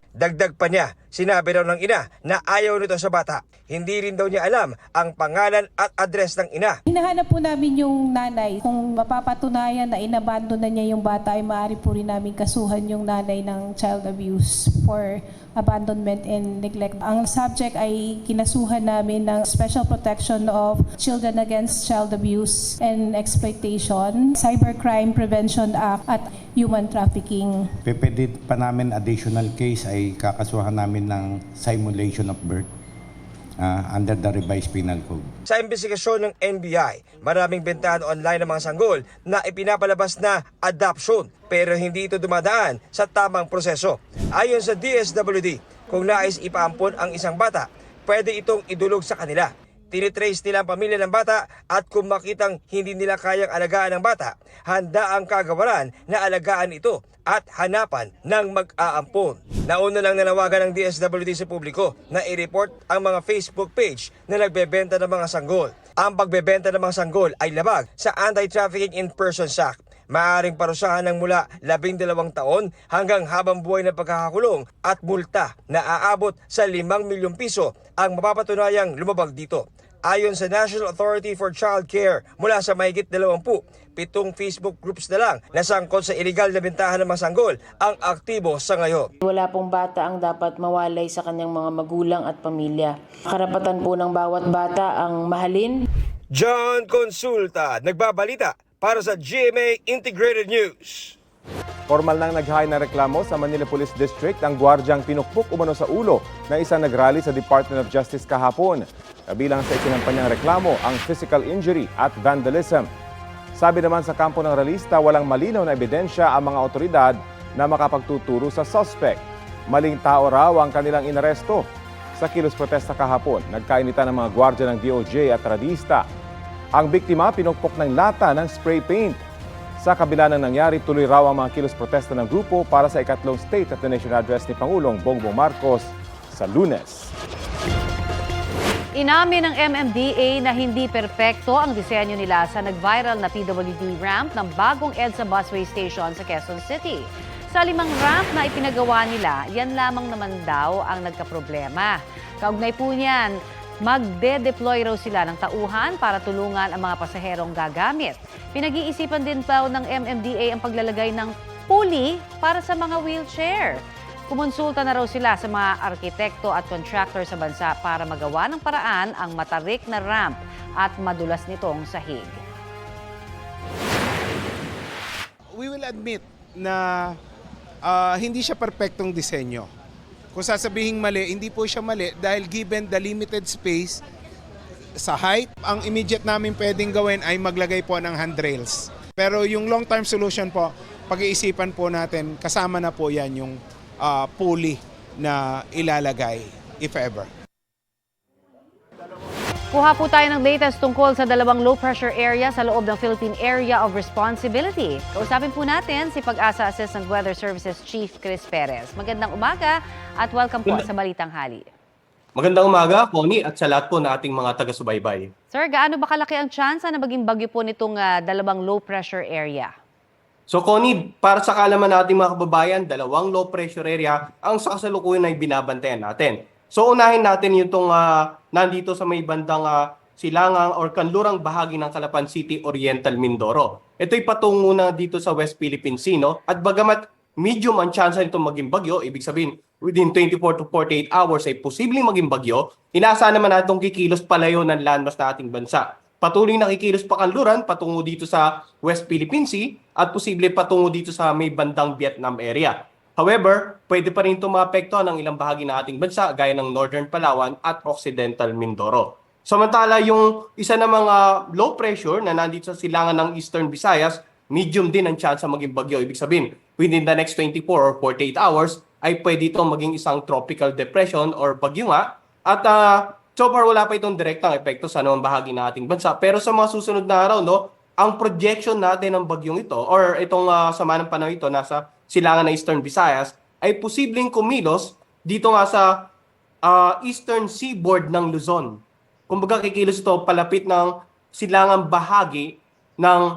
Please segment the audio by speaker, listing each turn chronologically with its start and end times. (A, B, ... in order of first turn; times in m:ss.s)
0:00.2-0:06.8 A
0:06.9-0:27.7 B
0:27.8-0:32.7 C
0:33.6-0:35.3 C
0:35.5-1:29.1 A
1:29.2-1:35.8 D
1:36.3-1:41.1 A
1:41.9-1:52.9 E
1:53.5-2:06.0 E
2:06.8-2:09.2 E
2:09.8-2:17.1 E
2:19.0-2:33.3 F
2:33.8-2:52.4 F
2:55.5-2:57.1 G
2:57.8-2:59.7 G
3:00.3-3:04.0 G
3:05.0-3:17.3 G
3:19.7-3:31.6 F
3:32.4-3:35.2 H
3:35.5-3:39.7 F
3:40.5-3:48.0 H
3:48.6-4:32.7 H
4:33.3-4:45.8 H
4:46.7-4:48.6 H
4:49.3-4:50.8 H
4:51.4-4:52.4 H